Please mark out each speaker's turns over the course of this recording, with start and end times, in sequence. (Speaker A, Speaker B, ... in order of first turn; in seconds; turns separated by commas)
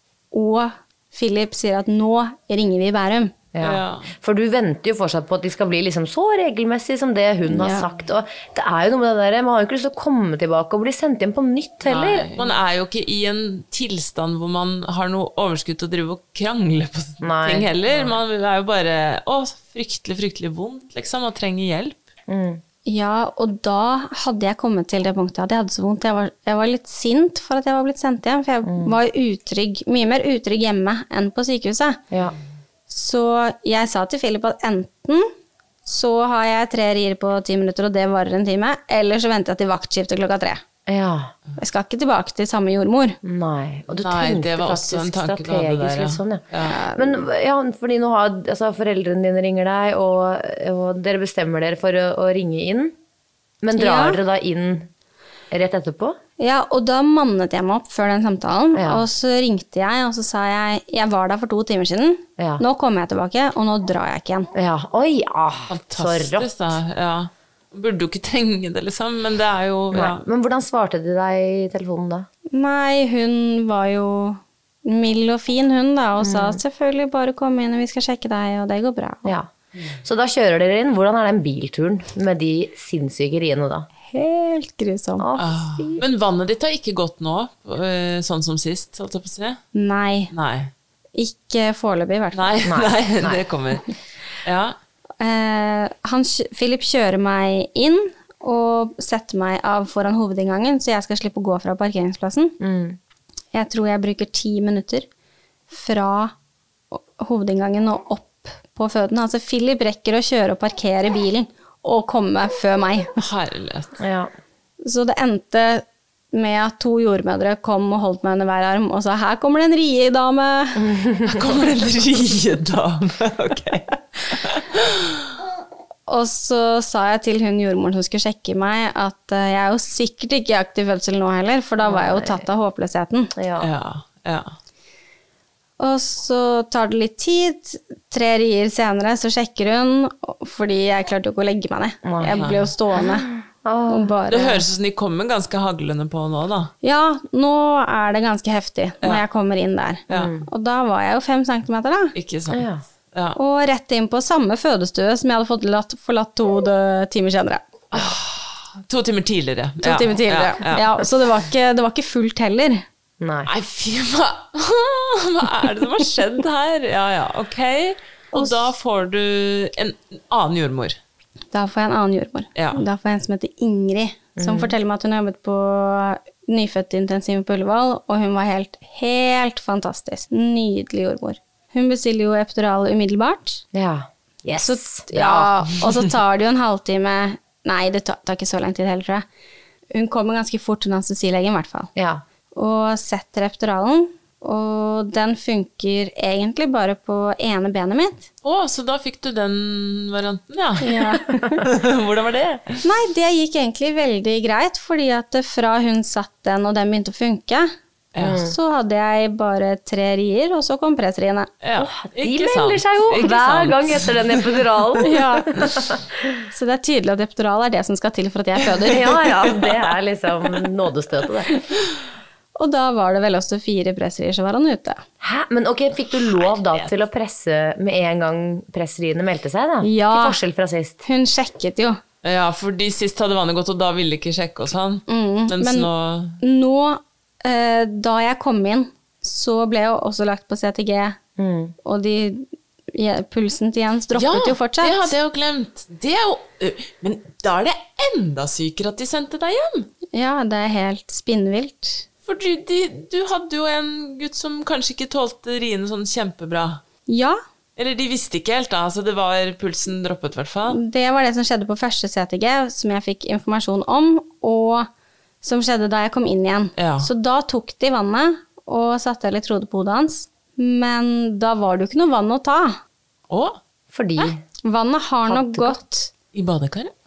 Speaker A: 0.3-3.3, Speaker B: 3.5-12.3, Speaker C: 3.6-4.1, Speaker A: 7.5-7.9, Speaker C: 11.8-22.0, Speaker B: 17.2-18.2, Speaker B: 22.3-22.6, Speaker A: 22.9-32.0, Speaker B: 28.6-28.9, Speaker A: 32.9-35.3, Speaker A: 35.8-40.6, Speaker B: 40.9-41.3, Speaker A: 41.6-43.2, Speaker B: 43.2-52.9, Speaker C: 43.9-46.8, Speaker A: 46.6-47.2, Speaker B: 53.6-54.9, Speaker A: 53.7-54.2, Speaker B: 55.5-56.2, Speaker A: 56.4-64.5, Speaker B: 58.7-59.0, Speaker B: 64.5-66.5, Speaker C: 65.7-70.2, Speaker B: 69.9-72.3, Speaker A: 72.5-79.3, Speaker B: 76.2-76.6, Speaker B: 79.2-79.5, Speaker B: 80.0-83.9, Speaker A: 84.1-85.3, Speaker B: 85.2-86.0, Speaker C: 85.4-89.6, Speaker A: 89.7-90.3, Speaker C: 90.3-90.7, Speaker A: 91.1-92.5, Speaker C: 92.3-93.8, Speaker B: 92.6-93.4, Speaker C: 94.4-94.8, Speaker A: 95.2-102.6, Speaker B: 102.6-103.0, Speaker A: 103.5-105.1, Speaker A: 105.7-106.3, Speaker A: 106.9-113.1, Speaker C: 113.2-114.0, Speaker B: 114.0-114.3, Speaker A: 114.8-120.8, Speaker B: 120.8-121.5, Speaker C: 121.3-125.2, Speaker A: 126.1-133.3, Speaker B: 131.8-132.4, Speaker B: 133.3-133.7, Speaker C: 133.6-134.5, Speaker A: 135.8-143.3, Speaker B: 142.0-142.4, Speaker C: 142.2-142.7, Speaker B: 142.9-144.2, Speaker A: 143.9-144.6, Speaker C: 144.3-146.7, Speaker A: 146.8-152.1, Speaker B: 150.1-150.5, Speaker C: 152.1-153.4, Speaker B: 152.5-152.8, Speaker A: 153.3-157.6, Speaker C: 157.9-161.0, Speaker A: 159.8-162.8, Speaker B: 163.2-163.5, Speaker C: 163.4-171.0, Speaker A: 171.5-183.6, Speaker C: 172.6-172.8, Speaker B: 174.3-174.7, Speaker B: 183.7-185.8, Speaker A: 184.6-189.2, Speaker A: 189.9-191.9, Speaker B: 191.9-192.2, Speaker A: 192.5-198.3, Speaker C: 198.4-200.9, Speaker A: 200.8-201.6, Speaker C: 201.6-202.8, Speaker A: 202.8-207.7, Speaker C: 208.1-208.4, Speaker B: 208.2-208.5, Speaker A: 208.4-211.5, Speaker C: 211.6-215.0, Speaker B: 211.8-216.0, Speaker A: 215.0-215.5, Speaker A: 216.5-219.1, Speaker B: 218.9-221.6, Speaker C: 219.4-219.7, Speaker A: 222.6-225.0, Speaker B: 225.2-231.0, Speaker C: 226.1-226.9, Speaker A: 229.8-230.4, Speaker A: 231.0-232.0, Speaker C: 232.2-236.4, Speaker A: 235.1-235.9, Speaker A: 236.4-241.2, Speaker B: 241.4-241.7, Speaker A: 241.8-245.1, Speaker C: 244.1-249.9, Speaker A: 250.1-252.1, Speaker C: 252.3-256.8, Speaker A: 257.1-257.4, Speaker C: 257.8-260.8, Speaker A: 260.7-264.9, Speaker A: 265.4-272.8, Speaker C: 266.8-267.1, Speaker C: 273.3-273.6, Speaker B: 273.9-274.4, Speaker A: 274.6-276.1, Speaker B: 275.2-275.8, Speaker C: 276.3-276.9